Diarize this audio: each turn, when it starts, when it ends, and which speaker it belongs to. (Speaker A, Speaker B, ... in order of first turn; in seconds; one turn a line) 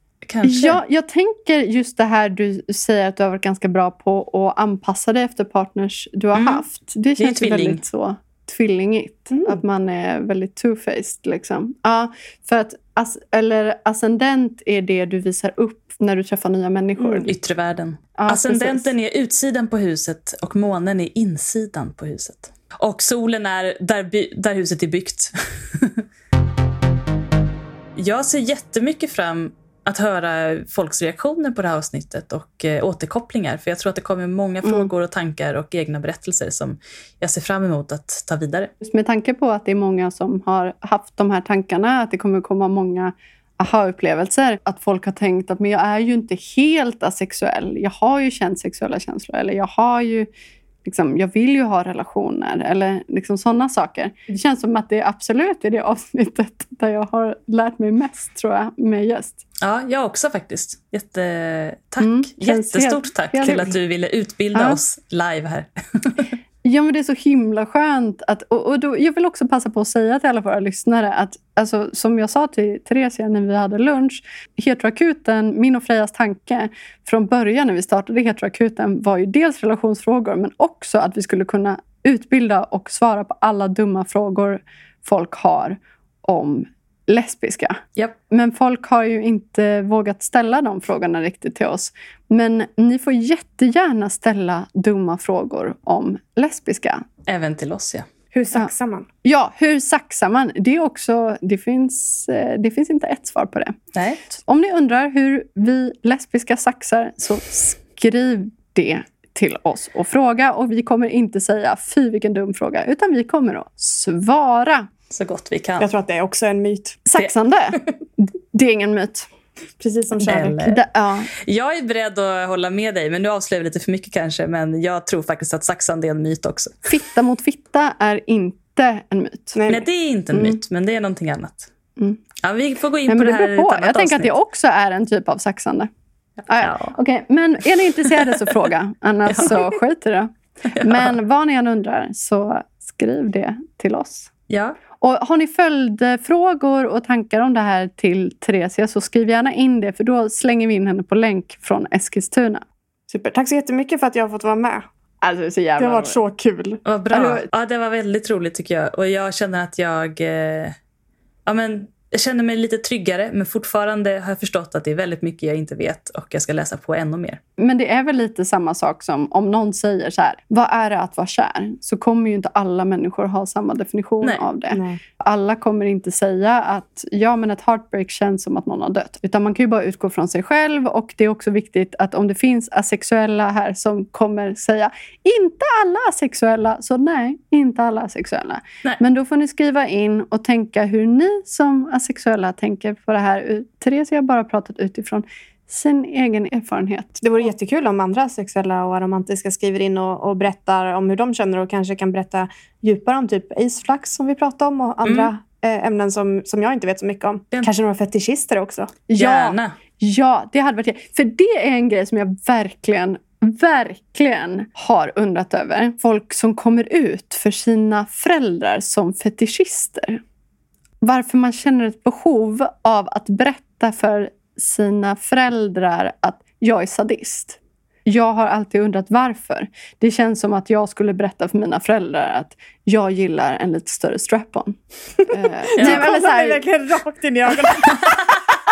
Speaker A: 0.2-0.8
Speaker B: 0.4-17.3
Speaker A: 6.3-6.6
Speaker A: 7.2-7.8
Speaker C: 9.3-9.6
Speaker C: 17.0-17.3
Speaker A: 17.3-26.0
Speaker B: 18.2-18.9
Speaker A: 28.0-38.7
Speaker B: 34.6-34.9
Speaker B: 38.8-50.3
Speaker B: 50.8-59.4
Speaker A: 59.6-66.3
Speaker B: 62.0-63.8
Speaker B: 66.6-97.1
Speaker A: 97.3-98.1
Speaker C: 98.3-99.1
Speaker B: 99.2-103.8
Speaker A: 104.0-104.2
Speaker B: 104.3-114.9
Speaker A: 115.1-115.9
Speaker C: 115.8-117.0
Speaker B: 117.1-119.3
Speaker A: 117.2-117.9
Speaker C: 119.8-120.6
Speaker B: 120.2-121.3
Speaker A: 120.3-120.8
Speaker A: 121.4-126.9
Speaker B: 126.9-129.6
Speaker C: 129.6-129.9
Speaker A: 129.7-131.7
Speaker B: 130.3-130.6
Speaker A: 132.4-134.3
Speaker B: 133.1-135.9
Speaker B: 136.5-144.3
Speaker A: 136.6-136.9
Speaker A: 139.3-139.6
Speaker A: 140.7-141.1
Speaker A: 144.5-144.8
Speaker B: 145.0-152.6
Speaker C: 153.1-154.9
Speaker B: 155.2-156.2
Speaker C: 155.8-156.8
Speaker A: 156.9-160.8
Speaker B: 157.1-157.5
Speaker A: 161.5-167.4
Speaker B: 167.6-197.2
Speaker C: 174.7-175.0
Speaker C: 197.2-208.9
Speaker A: 205.0-205.3
Speaker B: 209.1-220.2
Speaker A: 209.2-209.7
Speaker B: 221.0-236.6
Speaker C: 235.2-238.3
Speaker A: 235.8-236.1
Speaker A: 237.9-238.4